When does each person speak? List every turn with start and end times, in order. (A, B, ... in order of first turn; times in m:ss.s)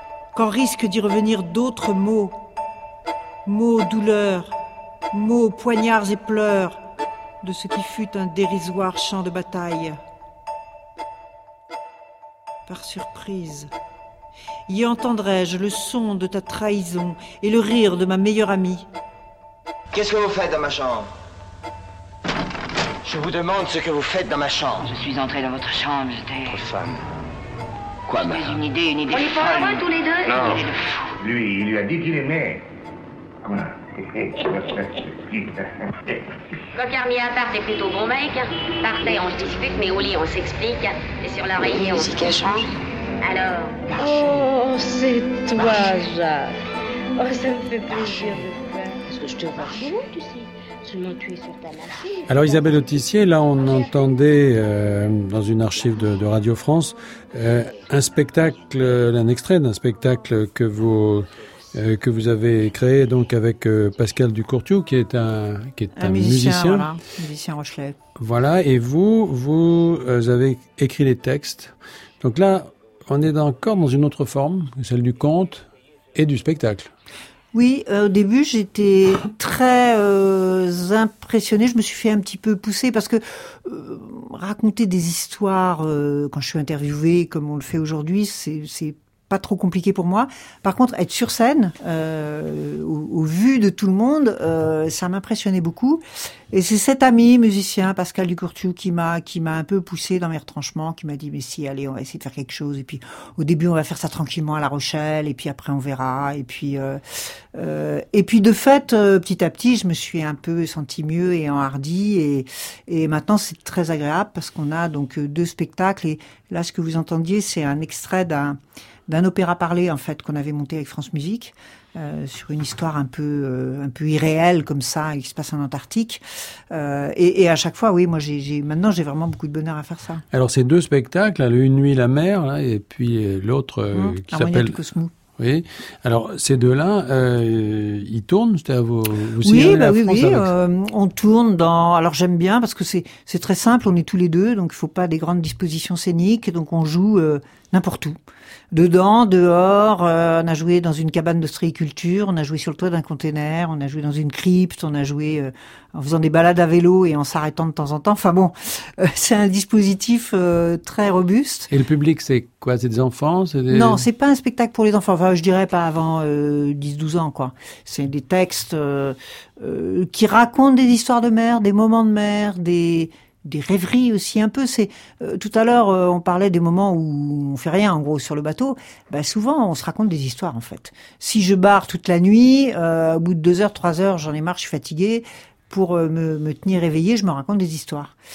0:00.4-0:02.4 A
0:03.5-0:04.6 A
0:05.1-0:06.8 A
0:07.4-0:10.0 A
0:12.7-0:13.7 A
0:14.7-0:18.9 A
0:19.9-0:21.1 B
0:23.0-0:24.9 B
0:24.9-0:26.6 C
0:26.6-0:27.0 B
0:28.1-0:28.6 B
0:28.2-0:29.8 C
0:29.1-0:30.5 D
0:30.3-0:30.6 B
0:31.2-0:32.6 E
0:33.4-0:36.3 E
0:36.8-0:42.4 D
0:43.2-0:43.8 D
0:43.9-0:46.6 F
0:47.2-0:52.5 F
0:52.3-1:06.9 G
1:06.0-1:08.0 A
1:08.2-1:16.9 G
1:17.5-1:47.0 A
1:47.5-2:10.2 A
2:10.3-2:14.8 G
2:13.9-2:15.1 A
2:15.4-2:20.5 G
2:19.4-2:28.2 A
2:28.7-2:41.7 A
2:41.7-2:44.0 G
2:43.7-3:08.1 A